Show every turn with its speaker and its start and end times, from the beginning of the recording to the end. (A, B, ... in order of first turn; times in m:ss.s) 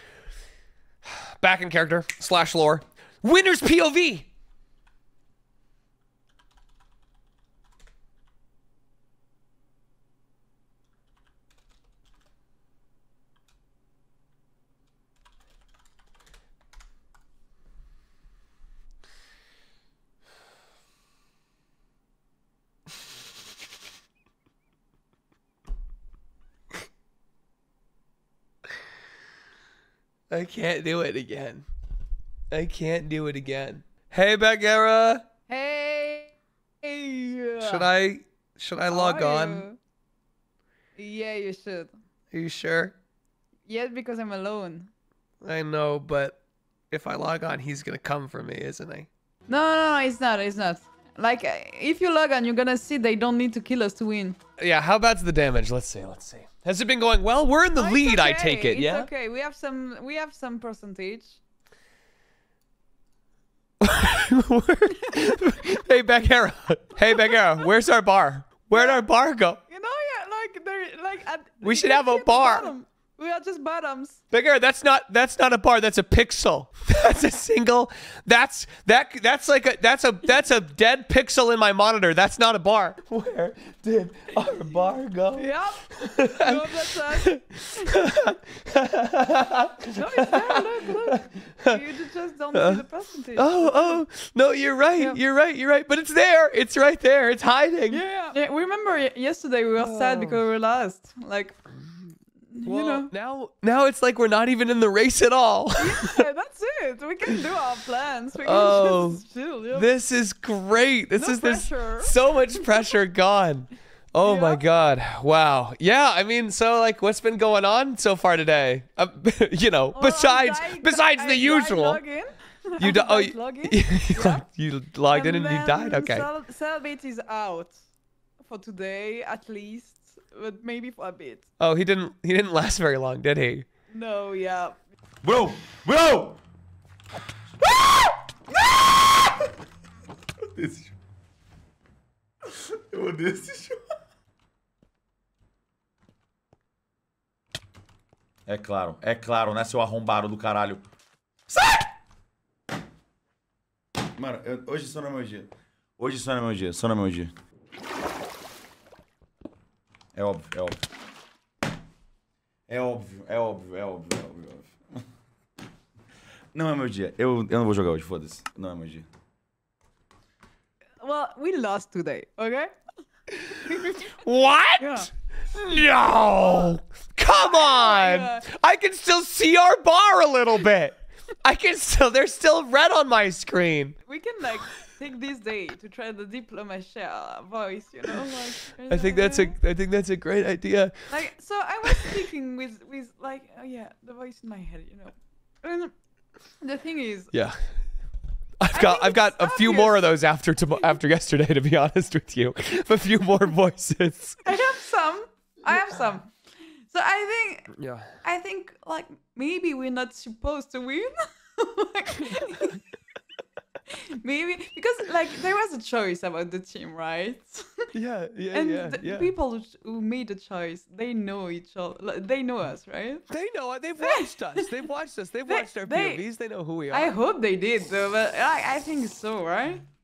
0:01.0-0:04.3 A
0:30.3-0:31.6 A
0:32.5-0:35.2 A
0:35.5-0:36.3 B
0:36.8-0:37.9 B
0:37.6-0:39.6 A
0:38.9-0:39.8 B
0:41.0-0:41.9 B
0:42.3-0:42.9 A
0:43.7-0:44.9 B
0:45.4-0:46.4 A
0:46.9-0:49.1 A
0:49.5-0:54.4 B
0:54.6-0:59.1 A
0:57.8-1:01.4 B
1:03.8-1:09.6 A
1:08.7-1:09.0 B
1:09.7-1:14.2 B
1:11.6-1:12.7 A
1:14.3-1:25.5 A
1:25.4-1:28.0 B
1:26.0-1:31.8 A
1:29.9-1:34.0 B
1:32.5-1:32.8 A
1:33.4-1:38.0 A
1:37.9-1:41.6 B
1:39.8-1:40.4 A
1:42.5-1:43.1 B
1:42.6-1:46.2 A
1:45.8-1:49.9 B
1:48.4-2:02.0 A
1:51.2-1:52.1 B
1:54.2-1:54.6 B
1:59.9-2:04.4 B
2:02.8-2:06.3 A
2:05.1-2:07.8 B
2:08.4-2:11.4 B
2:11.6-2:13.6 A
2:13.9-2:14.8 B
2:15.2-2:16.4 C
2:18.7-2:19.3 C
2:20.5-2:20.9 C
2:22.5-2:23.8 C
2:28.4-2:30.8 C
2:31.5-2:31.9 C
2:34.2-2:37.3 C
2:40.1-2:40.8 C
2:42.7-2:45.0 C
2:46.5-2:49.0 C
2:51.0-2:52.7 B
2:53.5-3:04.0 A
2:53.5-2:54.1 B
2:54.8-2:55.1 B
2:56.4-2:56.7 B
2:57.3-2:58.4 B
3:04.1-3:09.6 B
3:08.9-3:11.1 A
3:11.1-3:15.9 B
3:16.6-3:17.3 B
3:17.3-3:17.8 A
3:18.6-3:24.4 A
3:18.7-3:20.2 B
3:24.4-3:26.4 B
3:26.9-3:32.8 B
3:27.7-3:28.1 A
3:34.2-3:37.9 B
3:37.9-3:39.3 A
3:38.5-3:43.2 B
3:43.3-3:47.1 A
3:45.5-3:46.2 B
3:46.9-3:49.8 B